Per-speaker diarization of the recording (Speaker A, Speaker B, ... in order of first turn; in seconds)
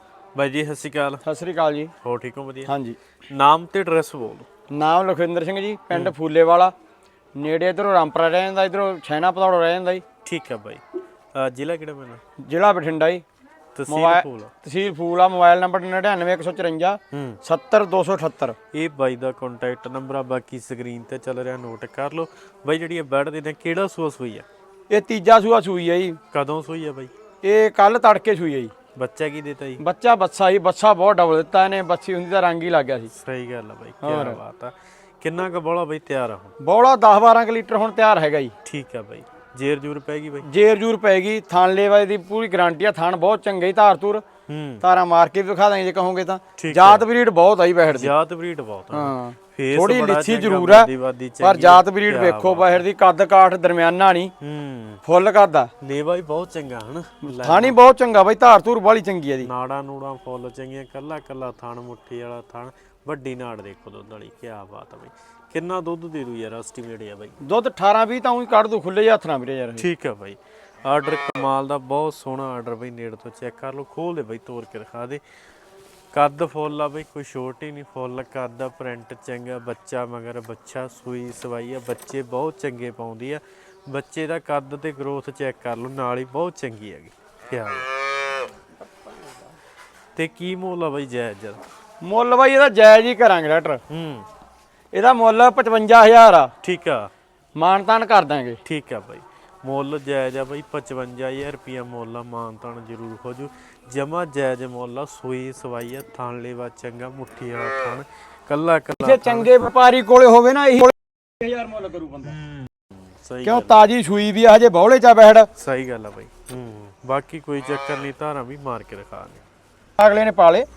Speaker A: 0.3-1.2, 2.0-2.7, 3.3-4.5, 10.2-10.8, 11.3-12.2, 13.7-14.5, 17.1-17.4, 18.7-24.5, 26.3-27.1, 28.9-29.8, 33.1-36.5, 38.6-40.5, 44.5-44.8, 46.6-47.0, 47.9-52.8, 54.4-55.0, 55.8-57.7, 59.4-67.4, 69.8-75.2, 76.1-87.9, 90.2-91.6, 93.9-94.2, 96.6-97.1, 98.6-109.6, 112.2-113.9, 115.5-119.4
Speaker B: 1.2-1.9, 2.7-3.0, 4.7-6.7, 7.4-10.0, 12.4-13.2, 13.9-18.6, 24.9-26.2, 27.4-28.7, 29.8-33.1, 34.0-34.4, 36.6-38.5, 40.4-44.2, 44.8-48.1, 48.9-54.3, 55.0-55.7, 57.2-59.5, 67.4-69.8, 92.0-93.8, 94.9-96.5, 97.5-98.6, 109.0-112.3, 113.4-115.5, 120.0-120.7